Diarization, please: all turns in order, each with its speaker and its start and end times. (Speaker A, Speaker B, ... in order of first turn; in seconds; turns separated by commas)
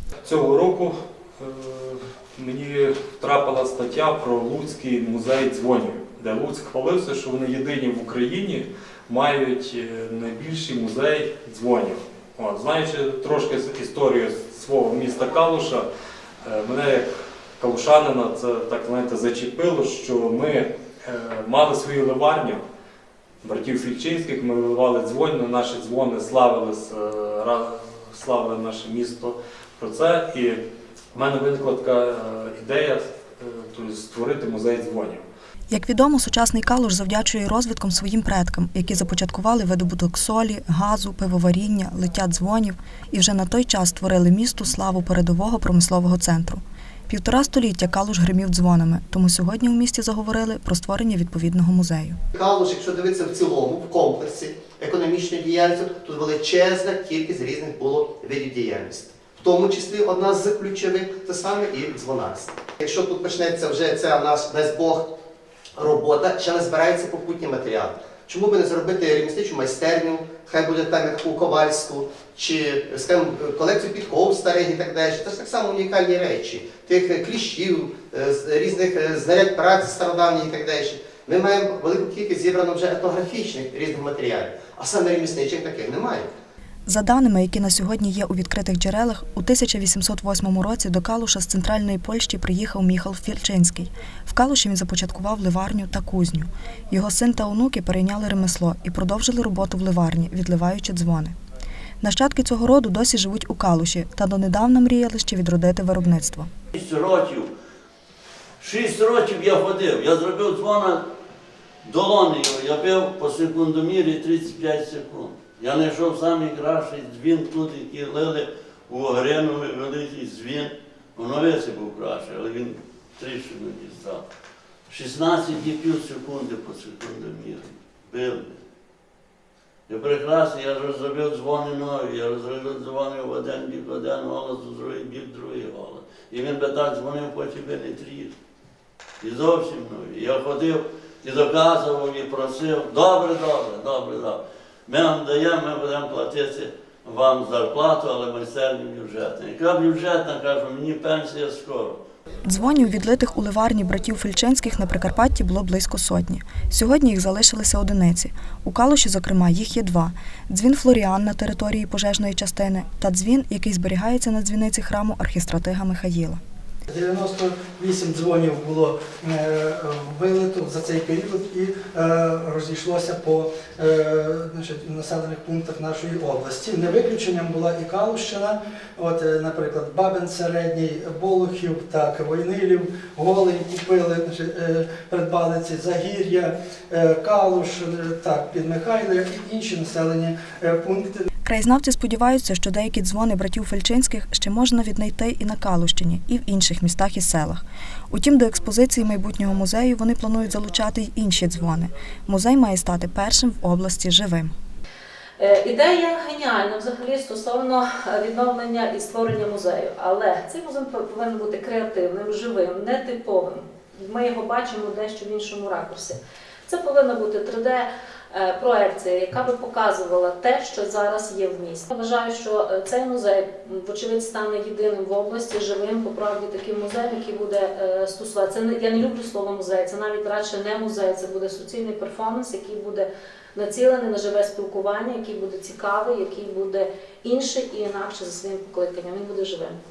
Speaker A: 0.2-15.9, Speaker A: 16.4-22.6, Speaker A: 23.4-30.6, Speaker A: 31.1-35.2, Speaker B: 35.7-52.2, Speaker C: 52.3-65.1, Speaker C: 65.8-86.3, Speaker B: 86.9-101.3, Speaker B: 102.0-106.5, Speaker D: 106.7-107.5, Speaker D: 108.6-111.0, Speaker D: 111.8-124.2, Speaker D: 124.9-128.6, Speaker D: 129.9-138.3, Speaker D: 139.2-152.0, Speaker B: 152.4-166.4, Speaker E: 166.9-191.3, Speaker B: 191.4-204.5, Speaker F: 205.4-239.8